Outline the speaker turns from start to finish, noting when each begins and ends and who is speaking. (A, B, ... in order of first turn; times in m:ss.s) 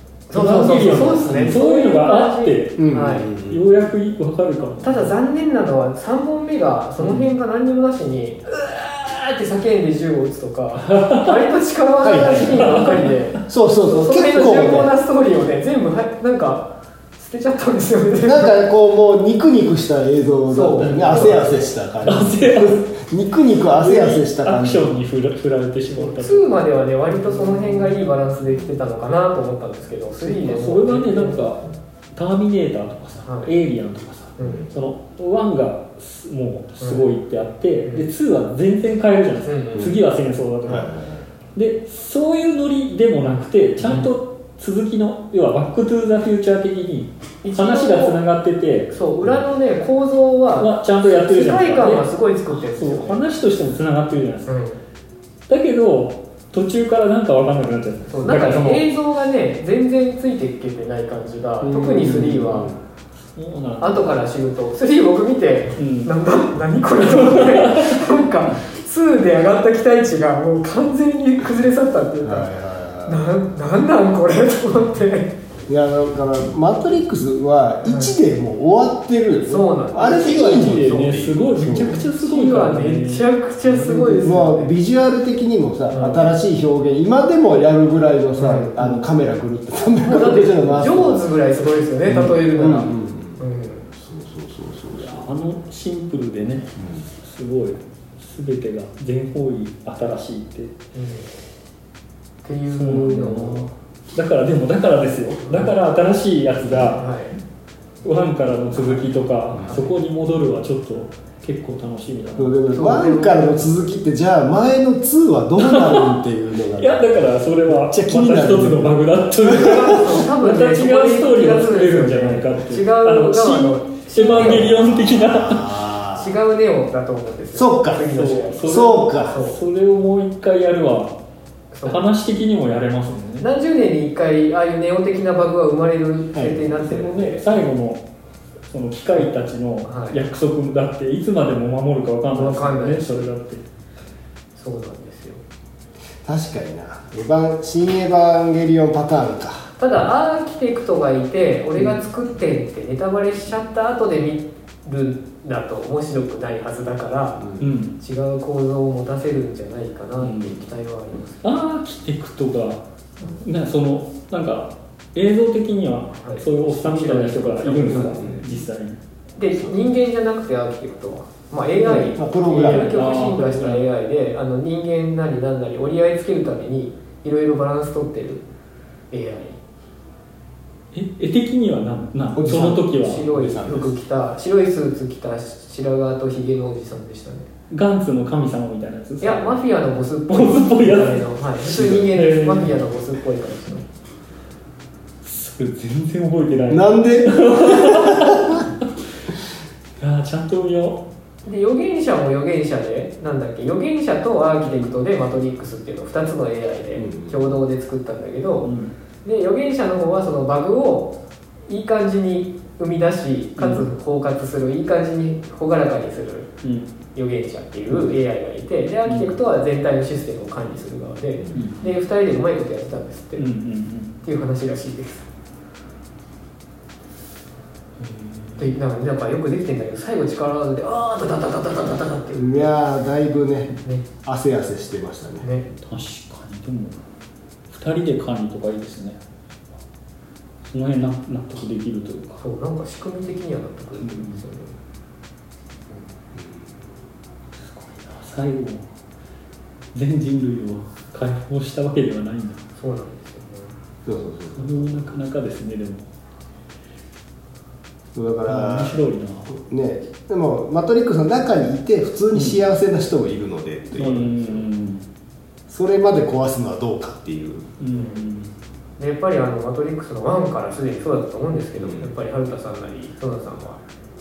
0:00.3-0:03.3 A
0:00.3-0:03.0 B
0:01.3-0:01.6 C
0:02.8-0:03.6 C
0:03.5-0:05.1 B
0:04.8-0:18.5 A
0:07.0-0:07.3 B
0:10.8-0:11.4 B
0:12.0-0:14.9 C
0:12.4-0:13.2 B
0:18.2-0:24.9 C
0:20.5-0:21.6 A
0:22.0-0:22.8 B
0:23.7-0:26.5 B
0:26.0-0:31.5 A
0:27.2-0:27.9 B
0:30.2-0:41.0 B
0:33.2-0:33.5 A
0:34.4-0:34.7 A
0:36.8-0:37.1 A
0:39.4-0:39.9 A
0:40.6-0:41.2 C
0:41.5-0:48.9 B
0:47.4-0:48.2 A
0:48.9-0:53.2 A
0:50.6-0:54.5 B
0:54.4-0:54.8 A
0:55.5-0:58.8 B
0:58.1-1:02.7 A
1:01.6-1:02.8 C
1:03.3-1:04.2 B
1:03.8-1:12.5 A
1:05.8-1:06.1 B
1:07.0-1:08.1 B
1:12.2-1:13.4 C
1:13.0-1:15.3 A
1:15.7-1:22.1 C
1:17.8-1:18.2 A
1:19.4-1:21.2 A
1:20.0-1:24.3 B
1:22.1-1:24.7 A
1:24.2-1:31.2 C
1:25.9-1:26.3 A
1:28.4-1:28.7 A
1:28.8-1:29.0 B
1:30.0-1:33.9 A
1:32.1-1:33.4 C
1:33.9-1:35.3 C
1:34.9-1:40.7 B
1:36.8-1:37.0 C
1:40.9-1:41.3 A
1:42.4-1:43.7 A
1:42.7-1:47.1 B
1:46.8-1:47.4 A
1:48.0-1:52.5 B
1:48.7-1:49.0 A
1:49.6-1:49.9 A
1:52.4-1:59.0 C
1:52.7-1:53.5 A
1:55.6-1:56.2 B
1:56.8-2:05.8 B
1:59.4-2:04.8 A
2:04.3-2:06.3 C
2:06.1-2:09.6 A
2:07.5-2:09.4 C
2:08.1-2:11.2 B
2:11.7-2:12.0 A
2:11.8-2:13.4 B
2:13.4-2:17.4 A
2:16.3-2:16.7 C
2:16.8-2:18.0 B
2:18.7-2:23.6 B
2:19.8-2:20.2 A
2:22.3-2:23.3 A
2:24.6-2:25.4 A
2:26.2-2:29.7 C
2:29.8-2:41.5 A
2:37.4-2:37.7 C
2:37.6-2:38.0 B
2:40.2-2:40.6 B
2:41.4-2:49.0 B
2:46.2-2:48.4 A
2:48.1-2:48.4 C
2:49.4-2:58.4 A
2:51.8-2:53.8 B
2:52.1-2:53.0 C
2:59.1-2:59.6 A
3:00.9-3:03.3 B
3:02.3-3:03.9 C
3:02.9-3:07.5 A
3:07.7-3:09.6 B
3:09.2-3:13.8 A
3:10.3-3:12.8 B
3:11.7-3:12.1 C
3:15.2-3:18.6 B
3:16.7-3:18.6 C
3:20.0-3:21.0 B
3:21.4-3:28.7 A
3:27.0-3:27.4 C
3:28.6-3:28.9 B
3:29.2-3:31.1 A
3:31.7-3:36.5 A
3:33.6-3:33.8 B
3:36.6-3:36.9 B
3:37.1-3:43.4 A
3:39.1-3:39.3 B
3:41.5-3:41.8 B
3:43.4-3:44.1 B
3:44.2-3:45.2 A
3:48.0-3:48.8 B
3:48.6-3:52.8 A
3:52.3-3:55.5 C
3:55.4-3:55.7 A
3:55.8-3:57.0 B
3:57.7-3:59.2 B
4:00.7-4:02.4 B
4:02.4-4:04.8 A
4:04.0-4:04.4 B
4:06.3-4:06.7 C
4:07.6-4:08.8 B
4:09.9-4:12.6 B
4:12.8-4:13.7 A
4:14.0-4:15.1 C
4:14.6-4:16.0 B
4:18.1-4:24.6 C
4:18.4-4:19.5 B
4:22.3-4:22.6 B
4:24.0-4:25.0 B
4:25.7-4:27.7 C
4:27.8-4:28.5 B
4:27.9-4:28.2 A
4:29.0-4:33.8 A
4:31.8-4:32.1 C